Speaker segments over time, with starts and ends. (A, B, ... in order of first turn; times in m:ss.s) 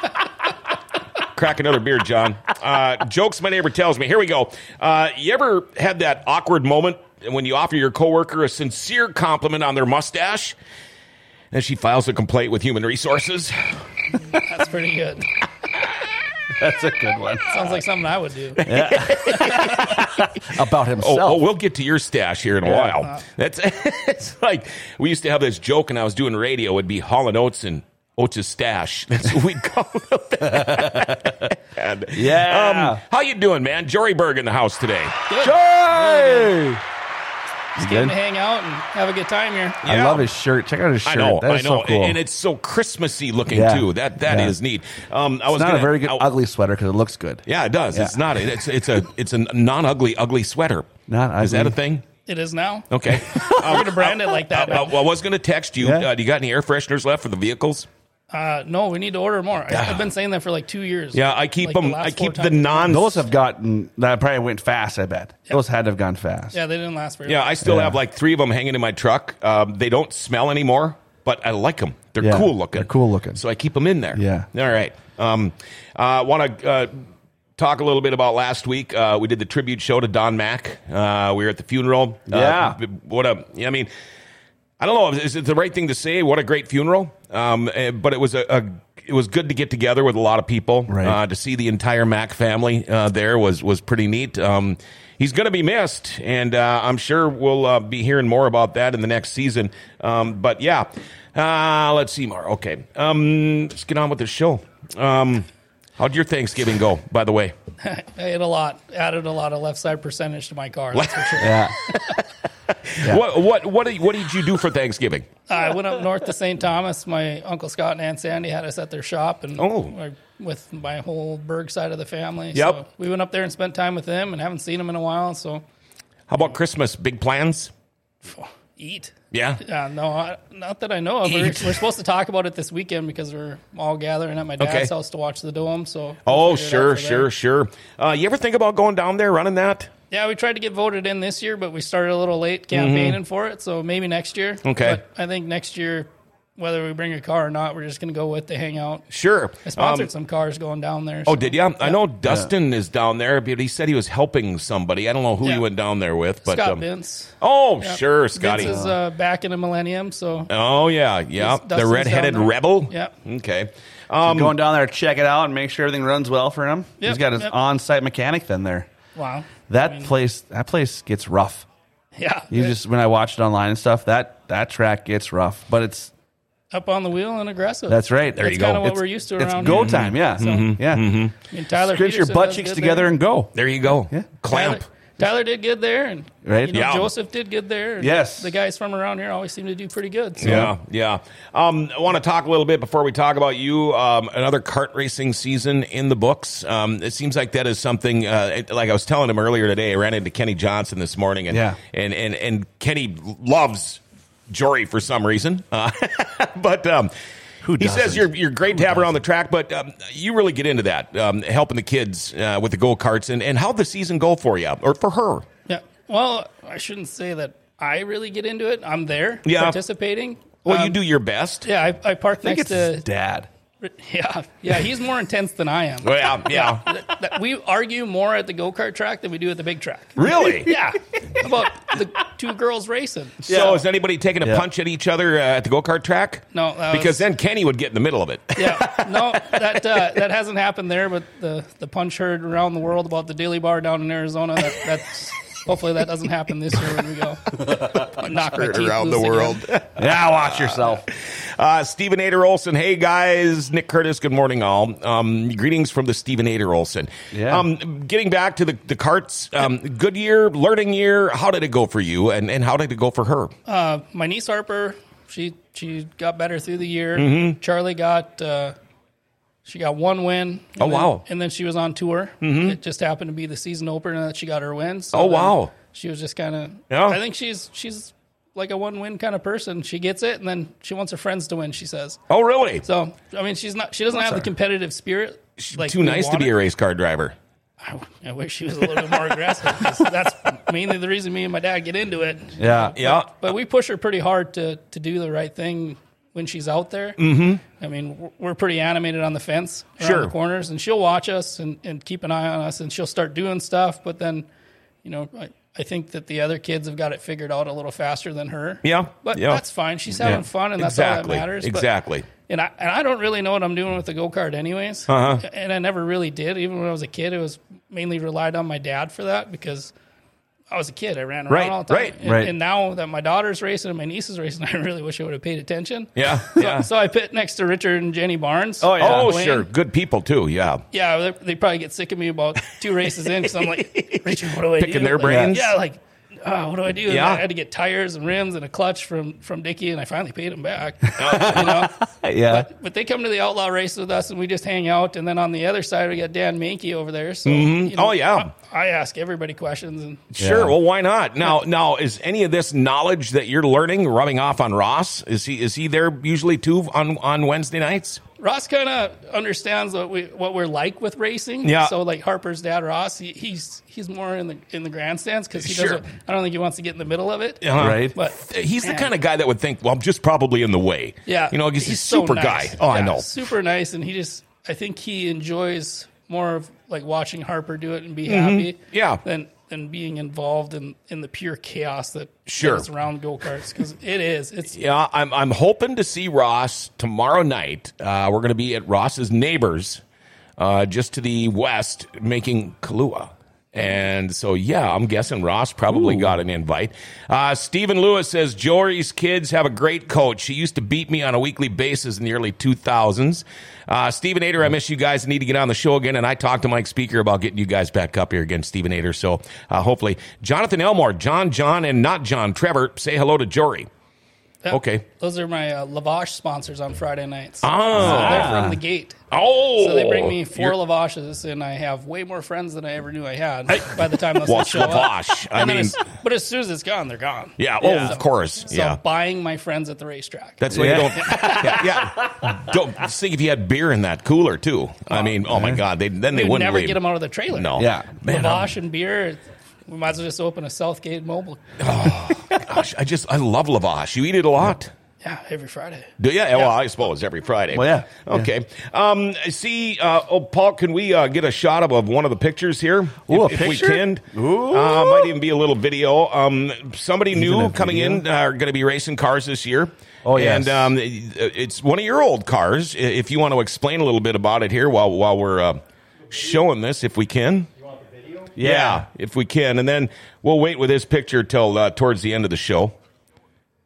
0:01.2-0:10.6 A
0:11.5-0:13.8 A
0:14.3-0:15.3 B
0:16.6-0:17.7 C
0:17.5-0:19.8 B
0:18.6-0:20.3 A
0:18.6-0:21.4 C
0:21.0-0:35.6 A
0:22.6-0:23.0 C
0:30.5-0:31.4 C
0:32.1-0:33.0 C
0:35.3-0:36.5 B
0:35.4-0:36.8 C
0:37.8-0:39.8 B
0:37.8-0:38.2 C
0:39.8-0:40.3 A
0:39.8-0:42.2 C
0:41.0-0:46.3 A
0:43.5-0:44.6 C
0:45.5-0:48.2 C
0:47.5-0:52.0 A
0:51.1-0:51.8 C
0:52.3-0:55.0 B
0:52.9-0:57.9 A
0:53.3-0:54.0 C
0:55.8-0:56.1 C
0:58.3-1:02.9 B
0:59.7-1:00.1 A
1:01.1-1:03.3 A
1:02.9-1:06.6 C
1:06.5-1:07.6 B
1:07.3-1:17.0 A
1:07.6-1:08.0 C
1:12.2-1:13.4 C
1:14.1-1:14.5 C
1:17.6-1:23.9 A
1:22.3-1:22.8 C
1:24.8-1:47.5 A
1:30.9-1:31.2 C
1:47.8-1:52.1 B
1:50.9-1:52.2 A
1:51.4-1:51.8 C
1:52.9-1:55.3 A
1:55.5-2:05.6 B
1:59.6-1:59.9 A
2:06.3-2:07.7 A
2:08.2-2:17.3 B
2:09.3-2:09.6 A
2:11.2-2:11.8 A
2:14.6-2:14.9 A
2:16.3-2:19.9 A
2:20.1-2:29.0 B
2:22.7-2:23.2 A
2:24.6-2:25.0 A
2:29.1-2:30.1 A
2:29.6-2:32.0 B
2:31.3-2:36.8 A
2:32.2-2:32.5 C
2:36.4-2:40.5 B
2:37.4-2:38.8 A
2:38.6-2:38.9 C
2:40.5-2:44.6 A
2:41.4-2:43.1 B
2:44.2-2:48.9 C
2:47.0-2:47.5 B
2:49.2-2:50.1 B
2:49.7-2:51.7 C
2:52.2-2:52.8 B
2:52.5-2:56.1 C
2:56.7-3:00.7 B
2:57.9-2:58.5 C
2:58.4-3:01.3 A
2:59.4-3:01.0 C
3:01.5-3:03.2 B
3:01.7-3:03.6 C
3:03.6-3:04.8 A
3:04.5-3:10.7 B
3:06.4-3:06.9 C
3:06.7-3:07.1 A
3:08.0-3:08.5 C
3:10.4-3:27.1 A
3:10.4-3:10.7 C
3:21.5-3:21.8 C
3:27.6-3:29.1 C
3:27.8-3:35.4 A
3:35.7-3:41.0 B
3:39.4-3:39.8 A
3:40.6-3:41.7 A
3:41.6-3:43.1 B
3:42.4-3:43.5 C
3:43.8-3:53.5 B
3:46.0-3:46.8 A
3:50.2-3:50.8 A
3:50.3-3:50.6 C
3:53.4-4:00.0 A
3:53.5-3:53.8 C
3:56.5-3:57.2 B
3:58.6-4:09.7 B
4:07.7-4:23.5 A
4:10.0-4:11.0 C
4:17.3-4:17.7 C
4:23.7-4:28.8 B
4:27.2-4:27.6 A
4:29.6-4:42.2 B
4:30.8-4:31.2 A
4:32.4-4:32.8 A
4:35.1-4:35.7 A
4:36.9-4:37.2 A
4:42.3-4:42.8 A
4:42.8-4:46.5 B
4:44.2-4:44.4 C
4:45.6-4:47.4 A
4:47.8-5:04.5 B
4:52.6-4:53.0 C
4:53.0-4:53.3 A
4:57.2-4:57.6 A
5:00.0-5:00.3 A
5:05.0-5:11.9 B
5:08.8-5:09.6 A
5:10.2-5:12.3 A
5:12.4-5:19.9 B
5:15.1-5:15.4 A
5:20.7-5:29.7 B
5:21.5-5:22.2 A
5:22.2-5:22.5 C
5:26.2-5:26.9 A
5:28.8-5:29.4 C
5:29.0-5:30.8 A
5:30.9-5:42.0 B
5:33.8-5:35.7 A
5:35.2-5:35.6 C
5:37.1-5:37.4 A
5:41.2-5:42.7 C
5:41.2-5:41.9 A
5:42.5-5:50.3 B
5:47.5-5:48.5 A
5:50.3-5:58.2 A
5:50.4-5:50.8 C
5:58.4-6:09.1 B
6:01.6-6:01.9 A
6:05.6-6:06.0 A
6:07.6-6:13.3 A
6:07.8-6:08.1 C
6:11.3-6:24.8 B
6:18.3-6:19.2 A
6:22.5-6:22.9 A
6:24.7-6:30.0 A
6:30.6-6:53.9 A
6:35.9-6:36.3 C
6:54.6-6:59.2 B
6:54.7-6:55.0 A
6:57.6-6:58.6 A
6:58.0-6:58.8 C
6:59.3-7:00.8 A
6:59.8-7:11.9 B
7:03.7-7:06.0 A
7:07.6-7:09.0 A
7:07.8-7:08.2 C
7:10.6-7:17.0 A
7:10.7-7:11.7 C
7:15.4-7:15.8 C
7:16.3-7:22.2 B
7:17.5-7:18.7 A
7:17.8-7:18.2 C
7:21.8-7:24.9 A
7:25.2-7:26.8 B
7:26.2-7:45.8 A
7:27.7-7:28.5 C
7:33.3-7:35.3 C
7:37.3-7:38.2 C
7:40.2-7:40.9 C
7:46.3-7:47.7 A
7:48.6-7:49.1 C
7:48.6-7:53.0 A